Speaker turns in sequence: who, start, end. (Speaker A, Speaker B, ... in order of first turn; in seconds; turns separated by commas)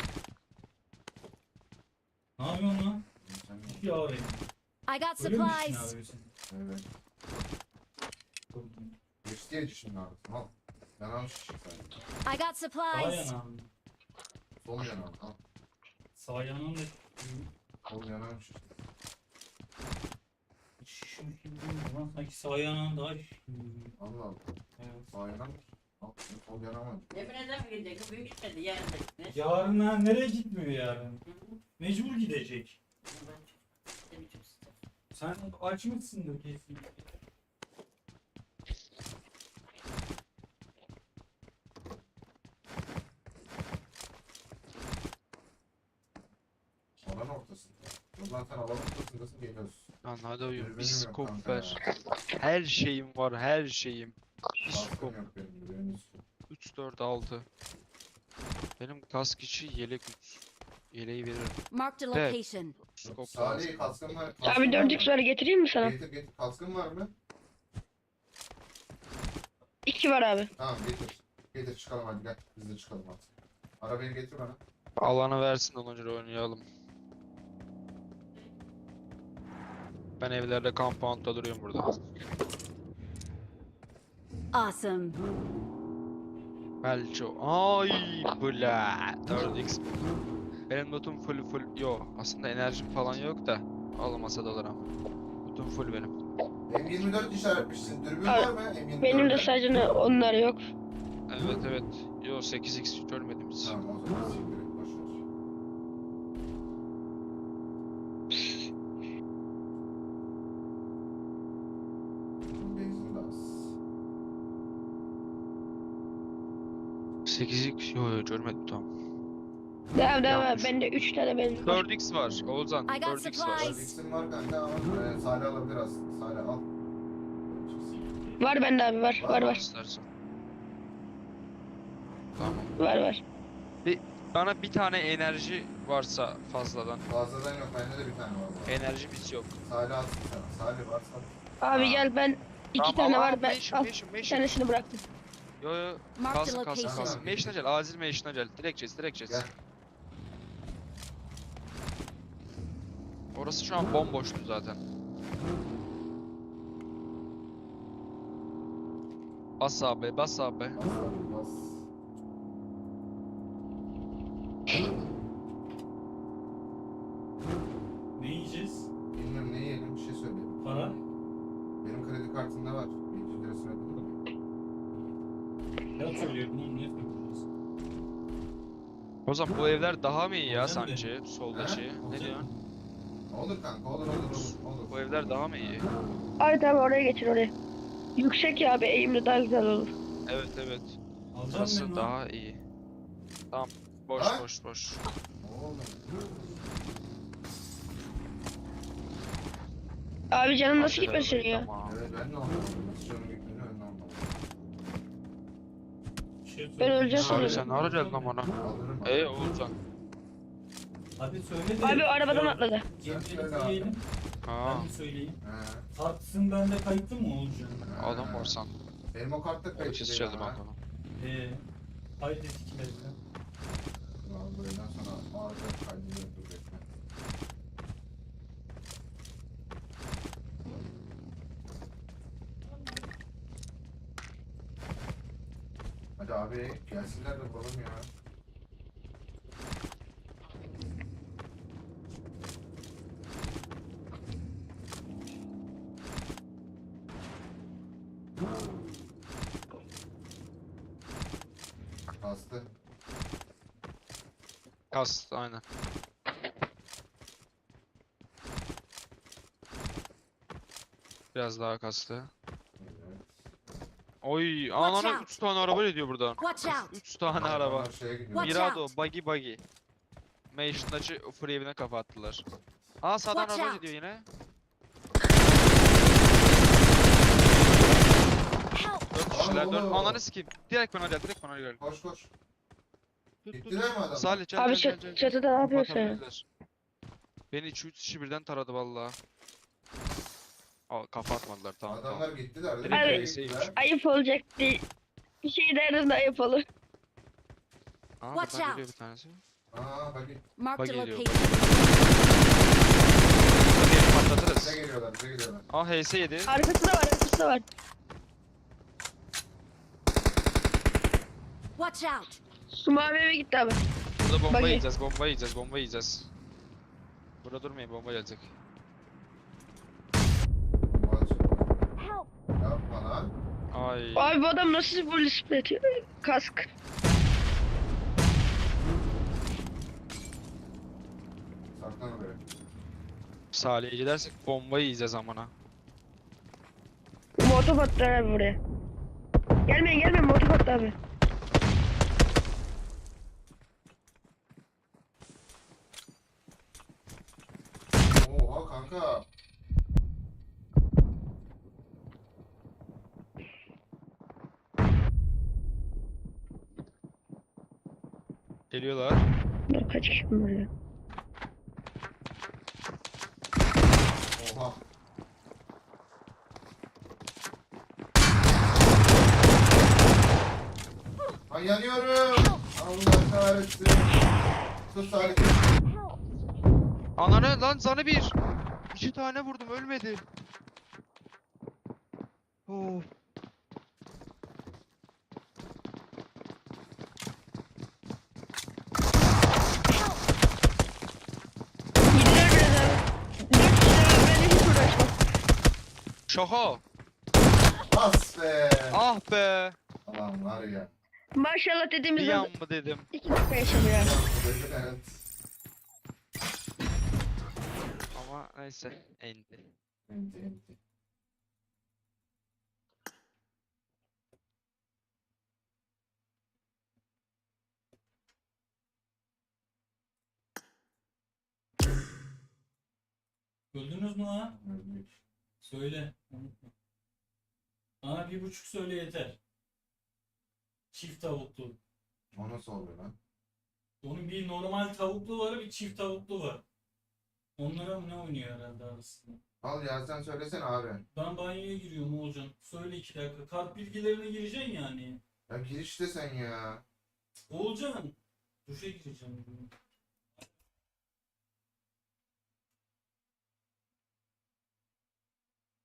Speaker A: 2.4-3.0, Speaker B: 3.2-4.0, Speaker A: 3.7-4.5, Speaker C: 4.9-5.9, Speaker A: 5.2-6.3, Speaker B: 6.5-6.9, Speaker A: 8.5-8.9, Speaker B: 9.2-12.0, Speaker C: 12.2-13.3, Speaker A: 12.9-13.7, Speaker B: 14.6-15.4, Speaker D: 14.7-15.0, Speaker A: 16.2-17.5, Speaker B: 17.9-18.8, Speaker A: 20.8-24.0, Speaker B: 24.0-24.6, Speaker A: 24.8-25.1, Speaker B: 25.1-27.2, Speaker E: 27.1-29.3, Speaker A: 29.3-31.2, Speaker A: 31.8-32.8, Speaker E: 33.1-33.5, Speaker E: 34.1-34.7, Speaker A: 35.1-37.0, Speaker B: 47.0-49.9, Speaker D: 50.0-55.2, Speaker B: 50.5-51.8, Speaker B: 54.7-56.2, Speaker D: 56.5-57.5, Speaker D: 58.8-61.6, Speaker C: 61.7-62.8, Speaker D: 62.1-64.2, Speaker B: 63.0-65.1, Speaker F: 64.5-65.9, Speaker B: 65.8-67.1, Speaker F: 69.9-70.5, Speaker B: 70.6-74.6, Speaker D: 75.0-76.7, Speaker D: 80.2-82.0, Speaker C: 84.5-85.2, Speaker D: 86.8-90.1, Speaker D: 90.7-94.9, Speaker D: 95.5-96.2, Speaker B: 96.7-99.6, Speaker F: 98.3-100.7, Speaker D: 101.3-103.8, Speaker B: 103.6-105.2, Speaker B: 112.6-113.8, Speaker D: 117.2-118.9, Speaker F: 119.9-121.8, Speaker B: 120.2-120.7, Speaker D: 121.6-123.7, Speaker B: 122.2-122.6, Speaker C: 122.9-124.0, Speaker B: 123.5-126.7, Speaker B: 127.5-128.0, Speaker A: 127.9-128.4, Speaker F: 128.4-129.6, Speaker B: 129.2-129.6, Speaker D: 129.3-130.1, Speaker D: 132.3-132.8, Speaker F: 132.8-133.2, Speaker D: 133.8-137.0, Speaker B: 137.1-138.9, Speaker D: 138.7-139.5, Speaker B: 139.6-142.1, Speaker F: 141.6-145.0, Speaker D: 142.8-144.5, Speaker D: 145.6-149.5, Speaker C: 146.2-147.2, Speaker B: 146.8-147.6, Speaker B: 149.3-149.5, Speaker D: 153.3-154.8, Speaker D: 159.6-160.8, Speaker B: 160.8-161.9, Speaker A: 168.2-168.9, Speaker B: 169.1-170.8, Speaker A: 170.6-171.0, Speaker B: 171.8-174.2, Speaker A: 175.9-177.5, Speaker D: 179.3-182.5, Speaker A: 180.5-181.1, Speaker B: 181.5-182.0, Speaker A: 182.0-182.6, Speaker B: 183.3-185.9, Speaker D: 184.3-185.8, Speaker F: 186.4-187.5, Speaker F: 188.2-189.9, Speaker D: 190.3-191.0, Speaker A: 191.3-192.1, Speaker D: 191.5-192.6, Speaker D: 193.5-195.0, Speaker B: 194.2-194.5, Speaker B: 195.4-196.6, Speaker F: 200.3-201.7, Speaker D: 200.8-201.9, Speaker B: 201.8-204.4, Speaker A: 206.4-208.3, Speaker F: 206.8-207.7, Speaker D: 207.2-208.5, Speaker B: 208.6-209.4, Speaker D: 209.1-209.8, Speaker A: 211.2-214.0, Speaker F: 211.8-212.9, Speaker B: 213.0-214.0, Speaker D: 214.5-214.9, Speaker A: 214.6-215.4, Speaker B: 215.4-215.9, Speaker A: 215.9-217.9, Speaker B: 217.8-218.6, Speaker D: 218.0-218.8, Speaker B: 219.1-220.6, Speaker D: 219.7-220.8, Speaker A: 221.2-221.6, Speaker A: 222.2-223.2, Speaker B: 223.6-226.8, Speaker B: 236.2-238.1, Speaker B: 252.2-252.7, Speaker D: 254.9-255.6, Speaker D: 261.3-262.3, Speaker B: 262.8-263.3, Speaker D: 264.2-269.6, Speaker C: 264.8-265.3, Speaker C: 266.4-267.0, Speaker B: 267.3-268.7, Speaker C: 268.3-268.9, Speaker D: 270.5-272.4, Speaker D: 273.0-274.3, Speaker C: 273.3-273.8, Speaker D: 279.1-281.8, Speaker B: 279.3-280.2, Speaker B: 281.8-282.3, Speaker D: 283.4-286.4, Speaker B: 283.5-284.5, Speaker F: 284.6-286.2, Speaker D: 287.5-289.2, Speaker D: 290.9-292.3, Speaker B: 291.9-293.8, Speaker D: 292.8-293.8, Speaker F: 292.9-294.8, Speaker F: 295.4-296.6, Speaker D: 298.2-299.4, Speaker C: 298.3-298.8, Speaker B: 299.7-300.4, Speaker C: 300.6-302.1, Speaker D: 300.8-302.5, Speaker D: 303.4-304.8, Speaker B: 304.6-305.7, Speaker D: 305.7-306.6, Speaker F: 306.5-307.6, Speaker C: 311.8-312.4, Speaker F: 312.7-313.8, Speaker D: 314.2-316.3, Speaker F: 314.5-314.8, Speaker D: 317.4-318.5, Speaker B: 320.9-321.9, Speaker B: 322.6-323.4, Speaker D: 323.7-324.3, Speaker F: 324.2-326.7, Speaker B: 331.7-332.4, Speaker D: 333.5-335.5, Speaker F: 337.4-338.6, Speaker F: 339.7-340.9, Speaker B: 348.1-349.3, Speaker D: 358.7-359.2, Speaker F: 359.7-360.7, Speaker B: 364.3-364.8, Speaker B: 371.5-374.2, Speaker B: 374.9-375.7, Speaker D: 377.2-378.4, Speaker D: 378.9-380.2, Speaker D: 382.7-383.1, Speaker F: 392.1-395.1, Speaker D: 396.3-396.8, Speaker B: 397.9-399.0, Speaker D: 398.9-399.8, Speaker B: 400.1-400.9, Speaker F: 401.4-402.5, Speaker D: 402.1-403.1, Speaker F: 403.1-404.1, Speaker B: 403.9-405.2, Speaker D: 408.1-409.7, Speaker B: 410.1-410.8, Speaker A: 423.7-424.6, Speaker B: 424.6-425.2, Speaker A: 425.6-426.7, Speaker A: 428.0-429.4, Speaker A: 430.9-431.8, Speaker B: 432.3-433.2, Speaker A: 434.0-436.6, Speaker A: 437.6-439.4, Speaker B: 439.6-441.1, Speaker A: 441.1-445.2, Speaker B: 445.5-446.9, Speaker A: 447.5-449.7